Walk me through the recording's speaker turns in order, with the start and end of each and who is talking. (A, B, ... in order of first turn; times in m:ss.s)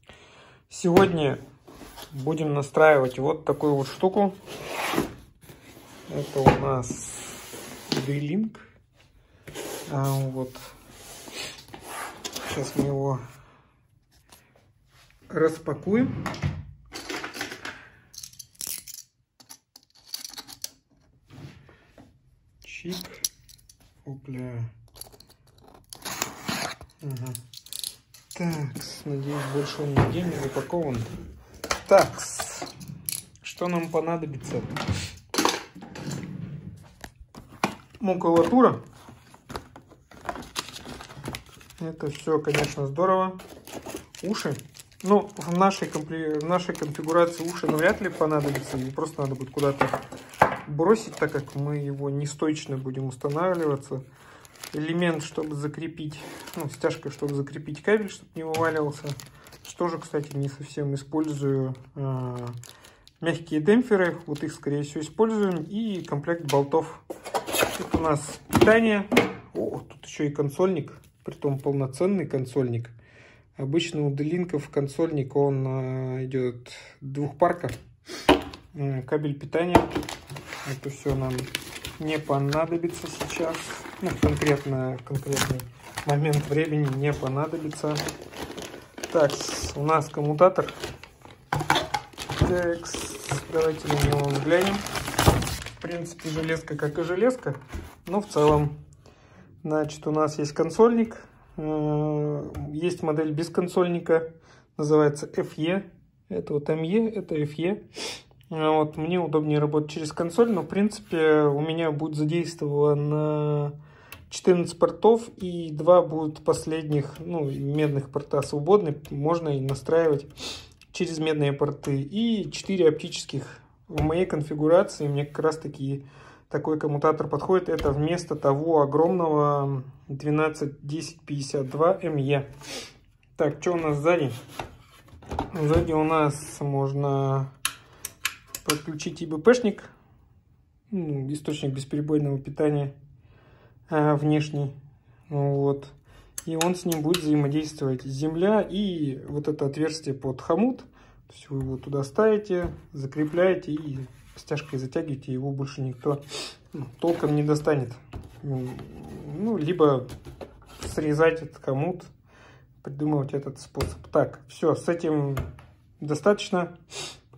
0:00.7-0:01.4 A
0:02.1-0:04.4 A
0:06.1-0:08.6 A
0:09.9-0:10.7 A
0:12.4-0:13.2 A
0:15.3-0:16.1 A
0:22.6-0:23.2 A
0:24.0-0:24.7 A
0:27.0-0:27.4 A
0:28.3-0:31.1 A
0:31.8-0:32.7 A
0:33.4-0:34.8 A
0:38.0-0:38.8 A
0:41.8-0:43.4 A
0:44.2-0:50.0 A
0:50.6-0:54.0 A
0:54.7-1:02.6 A
1:03.2-1:07.0 A
1:07.7-1:12.9 A
1:13.6-1:17.8 A
1:18.7-1:20.0 A
1:20.6-1:28.0 A
1:29.1-1:30.8 A
1:32.3-1:34.8 A
1:35.8-1:38.7 A
1:39.6-1:47.8 A
1:48.5-1:53.7 A
1:54.3-2:00.3 A
2:00.9-2:12.5 A
2:13.4-2:14.3 A
2:15.5-2:17.5 A
2:18.6-2:19.9 A
2:20.9-2:22.9 A
2:23.9-2:24.7 A
2:25.3-2:25.9 A
2:26.4-2:36.2 A
2:36.7-2:40.1 A
2:40.8-2:42.1 A
2:42.8-2:45.4 A
2:46.0-2:46.8 A